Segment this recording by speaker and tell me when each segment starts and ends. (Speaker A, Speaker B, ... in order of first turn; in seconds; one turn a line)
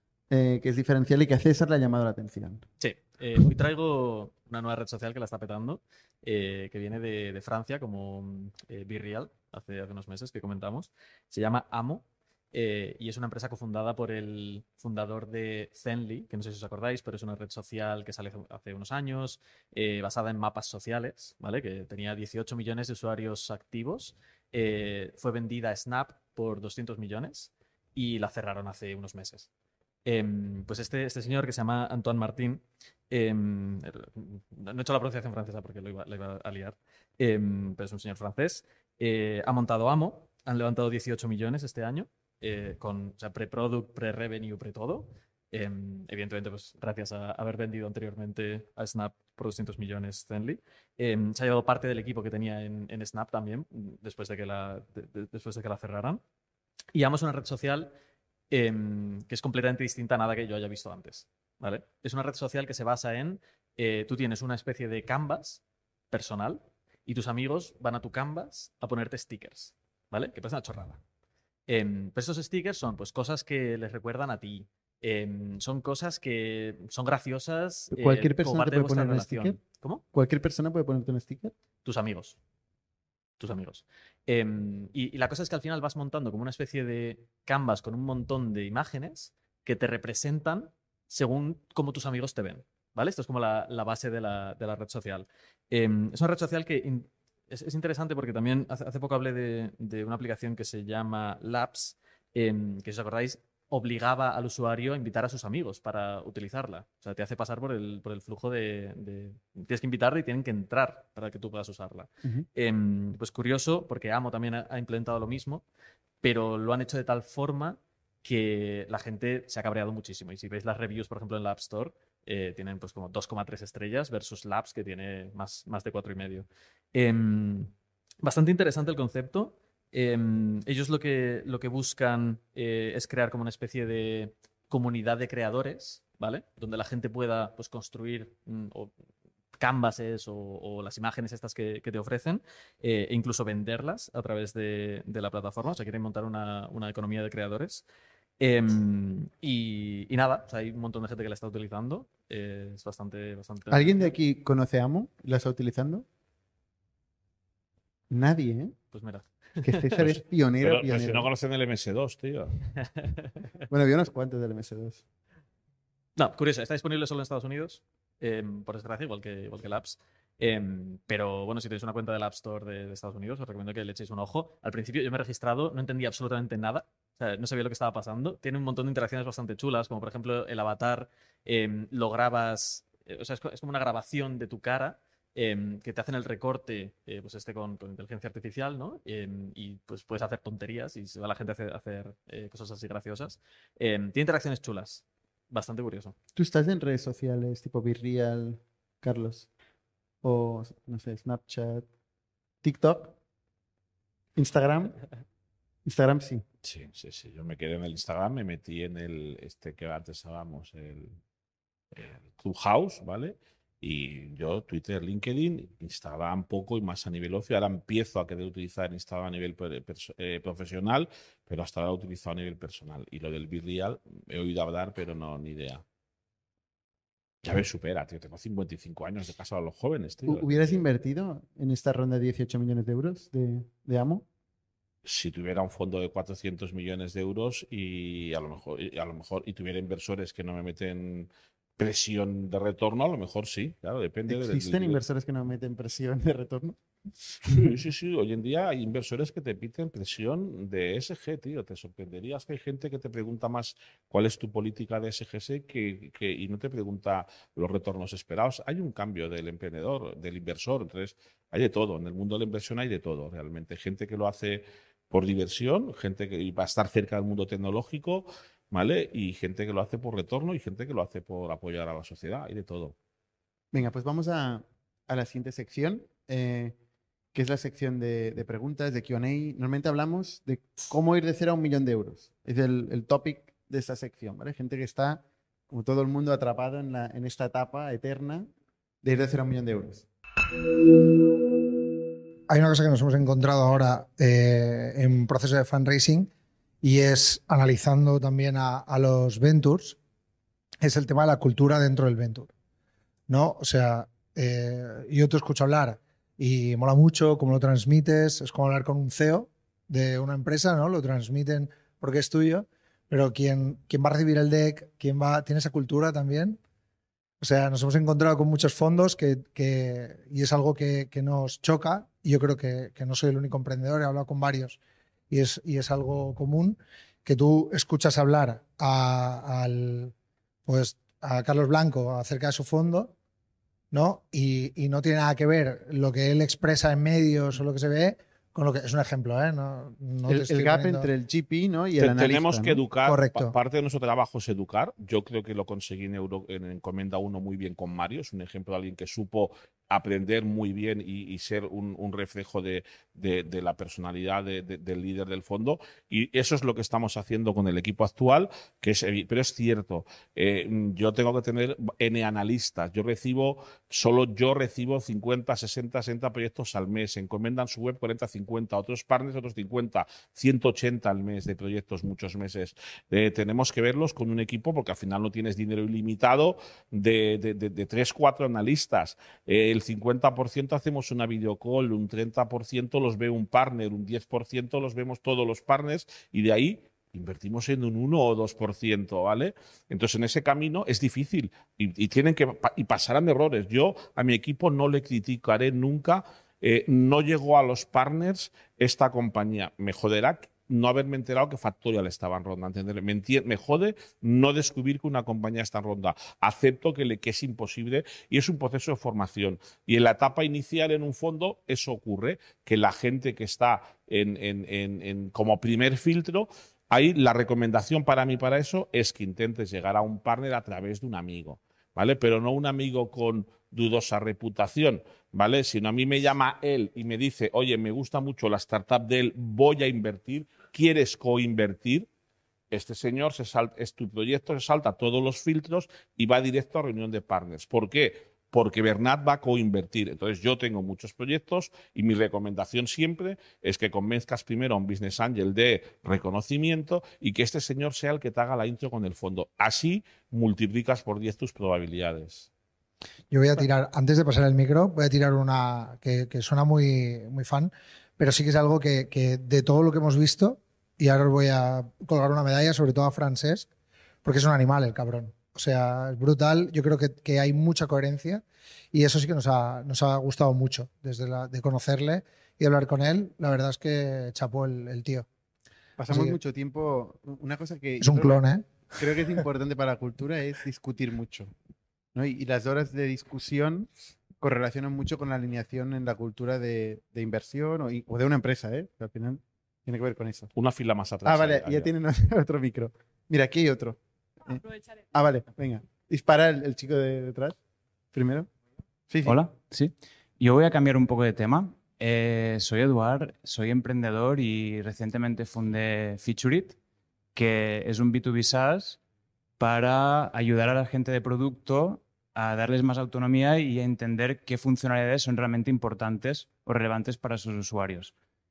Speaker A: 0.3-2.6
Speaker B: 2.8-29.5
Speaker B: 30.1-56.2
Speaker B: 56.9-57.9
Speaker B: 58.5-71.0
Speaker B: 71.7-80.0
Speaker A: 77.9-79.6
Speaker A: 80.1-81.5
Speaker B: 81.8-82.3
Speaker B: 83.4-115.6
Speaker B: 116.2-127.7
Speaker B: 128.2-138.9
Speaker B: 139.6-147.8
Speaker B: 148.4-154.1
Speaker A: 153.7-156.0
Speaker A: 158.1-158.8
Speaker B: 158.9-160.1
Speaker A: 159.6-161.3
Speaker C: 160.6-162.5
Speaker A: 163.7-165.0
Speaker B: 166.2-196.1
Speaker A: 196.3-199.5
Speaker A: 200.2-201.9
Speaker A: 202.6-203.1
Speaker A: 204.3-205.0
Speaker A: 205.8-206.4
Speaker C: 206.6-211.2
Speaker C: 211.9-225.8
Speaker C: 227.4-230.5
Speaker A: 230.2-234.2
Speaker C: 235.0-245.0
Speaker A: 244.3-246.8
Speaker C: 247.5-272.9
Speaker A: 273.7-276.7
Speaker A: 277.3-288.5
Speaker A: 289.0-290.1
Speaker D: 292.5-296.3
Speaker D: 296.8-300.0
Speaker D: 300.8-302.5
Speaker D: 303.3-316.6
Speaker D: 317.4-324.8
Speaker D: 325.3-330.1
Speaker D: 330.7-333.1
Speaker D: 333.9-341.1
Speaker A: 340.3-342.8
Speaker C: 342.0-432.1
Speaker D: 343.0-343.5
Speaker C: 432.7-452.5
Speaker D: 453.3-463.7
Speaker D: 464.2-468.4
Speaker D: 468.9-475.2
Speaker D: 476.0-476.4
Speaker A: 476.0-481.5
Speaker D: 478.0-478.6
Speaker A: 482.1-490.5
Speaker C: 490.5-491.9
Speaker A: 491.2-497.6
Speaker A: 498.1-498.5
Speaker A: 499.1-499.4
Speaker E: 499.2-506.7
Speaker E: 507.3-509.0
Speaker E: 509.6-518.1